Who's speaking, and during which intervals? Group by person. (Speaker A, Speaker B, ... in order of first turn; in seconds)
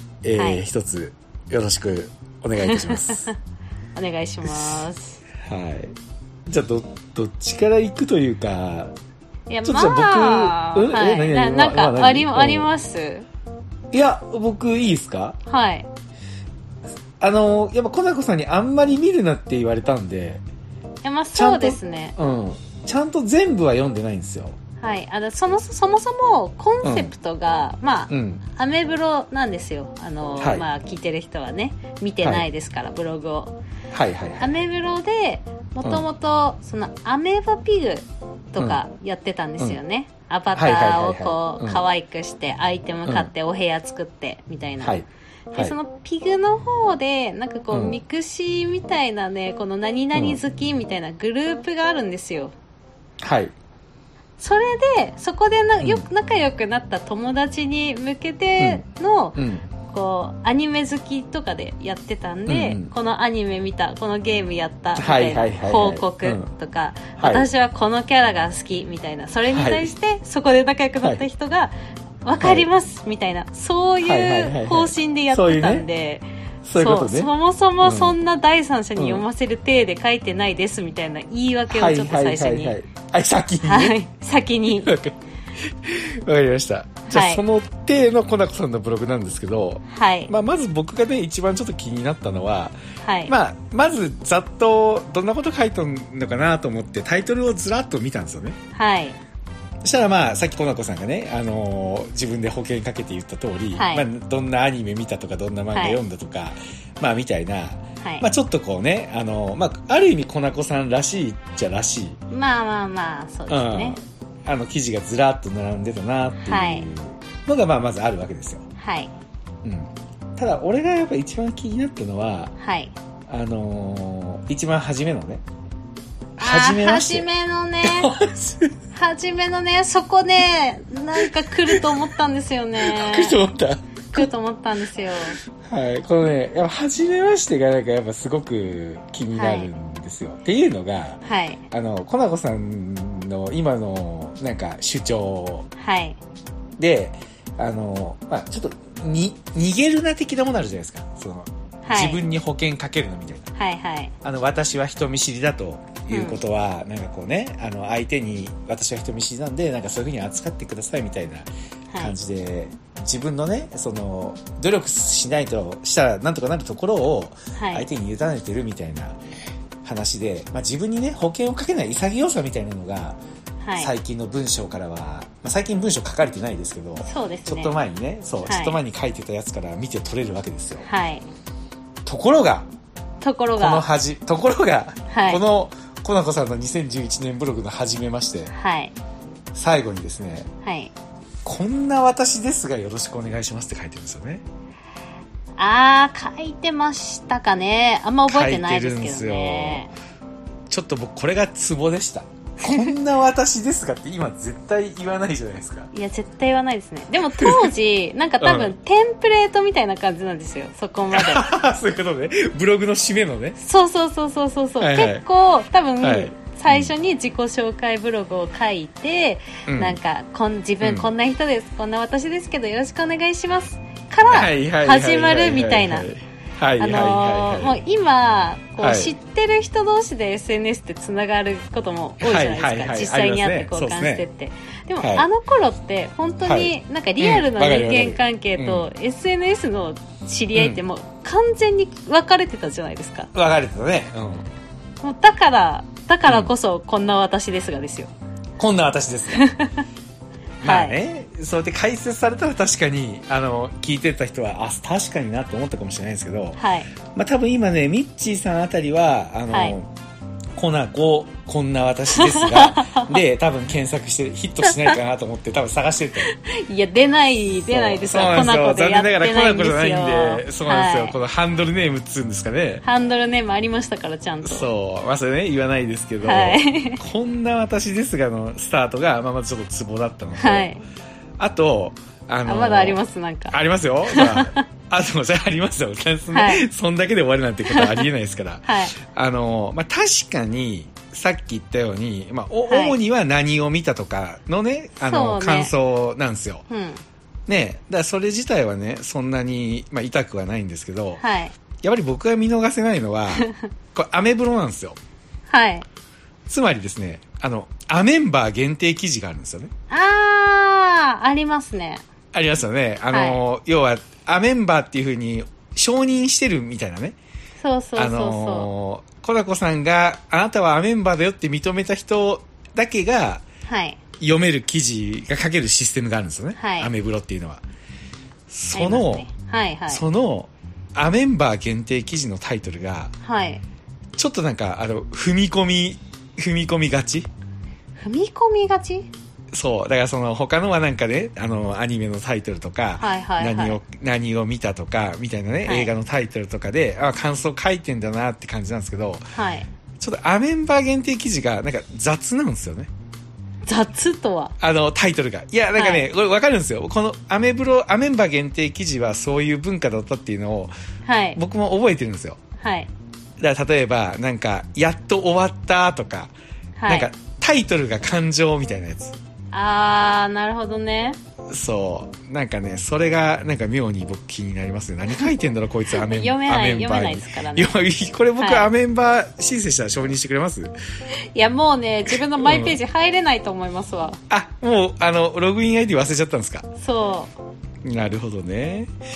Speaker A: 0.2-3.3, 5.4-5.9, 6.5-8.9, 9.6-12.7, 13.9-15.4, 17.2-20.4, 21.3-24.6, 26.8-27.1, 28.1-28.4, 30.4-30.6, 33.9-34.5, 40.5-41.8, 44.8-45.8, 47.7-48.0, 50.1-50.4, 53.2-53.5, 55.8-56.0, 58.6-58.8, 59.4-59.7, 62.5-62.9, 65.0-66.5, 67.2-67.5, 69.5-69.9, 72.4-72.7, 74.0-75.9, 76.6-78.2, 79.0-79.2, 81.7-83.9, 84.7-92.7, 93.3-98.6, 99.8-112.2, 113.5-118.6, 119.6-122.5, 123.3-125.4, 126.4-127.3, 127.8-128.7, 131.2-132.1, 132.8-134.3, 135.6-145.7, 146.8-153.5, 154.2-169.2, 169.8-173.2, 173.8-180.9, 182.0-182.7, 183.6-188.5, 189.5-190.5, 191.4-194.4, 198.3-199.8, 200.7-205.9, 207.4-207.7, 208.4-208.7, 211.1-213.6, 214.8-215.2, 216.0-216.9, 219.7-220.0, 220.8-221.1, 224.3-227.8, 228.8-229.1, 232.2-234.2, 235.0-235.3, 236.4-238.9, 240.5-240.8, 243.3-244.4, 246.2-246.5, 248.6-249.4, 250.6-256.6, 257.1-259.9, 260.6-266.3, 267.7-272.8, 274.4-280.7, 281.4-296.6, 297.5-301.2, 301.8-305.0, 306.5-309.7, 312.3-317.2, 317.9-323.4, 324.2-327.6, 328.5-329.3, 329.9-333.1, 334.2-337.3, 339.5-349.2, 350.0-352.9, 354.6-360.7, 361.4-362.4, 363.4-366.3, 366.9-369.2, 371.5-380.7, 382.1-382.8, 384.3-386.7, 387.8-388.9
Speaker B: 0.4-0.6, 2.6-3.3, 3.9-5.2, 9.5-13.2, 15.5-15.9, 21.0-22.1, 24.8-33.5, 34.4-52.5, 54.4-71.7, 72.2-82.7, 83.6-84.9, 87.1-87.4, 89.9-90.3, 93.0-93.3, 98.7-99.2, 103.7-104.0, 105.7-106.0, 108.0-108.3, 112.3-114.0, 116.5-116.9, 118.8-119.1, 122.6-122.9, 126.4-128.1, 128.9-133.4, 134.1-135.4, 139.3-139.7, 141.2-141.6, 145.8-146.2, 151.8-152.2, 153.6-154.1, 156.1-156.4, 167.5-167.8, 173.6-173.9, 177.0-177.8, 178.4-178.8, 180.8-181.2, 183.2-183.8, 185.1-185.4, 188.5-188.9, 190.6-190.9, 195.6-199.9, 202.6-202.9, 205.9-211.4, 213.6-226.1, 226.8-243.3, 245.0-248.1, 249.3-249.8, 250.6-251.0, 256.6-256.9, 259.5-259.8, 262.1-263.2, 264.6-265.0, 266.2-271.1, 272.8-274.7, 276.2-277.0, 280.4-280.8, 282.4-283.6, 284.1-284.6, 286.3-286.6, 287.7-288.1, 288.6-288.9, 292.7-293.0, 295.0-295.7, 296.7-297.0, 301.2-301.5, 305.5-305.9, 309.9-312.0, 313.1-313.4, 317.6-318.7, 323.6-324.0, 326.6-326.9, 328.7-330.0, 333.2-333.6, 338.0-339.1, 343.0-343.8, 345.6-345.9, 349.3-349.7, 353.6-354.5, 355.8-356.1, 361.0-361.4, 362.6-362.9, 366.8-367.1, 369.5-371.2, 375.9-377.7, 378.4-378.7, 381.3-384.2, 386.8-387.3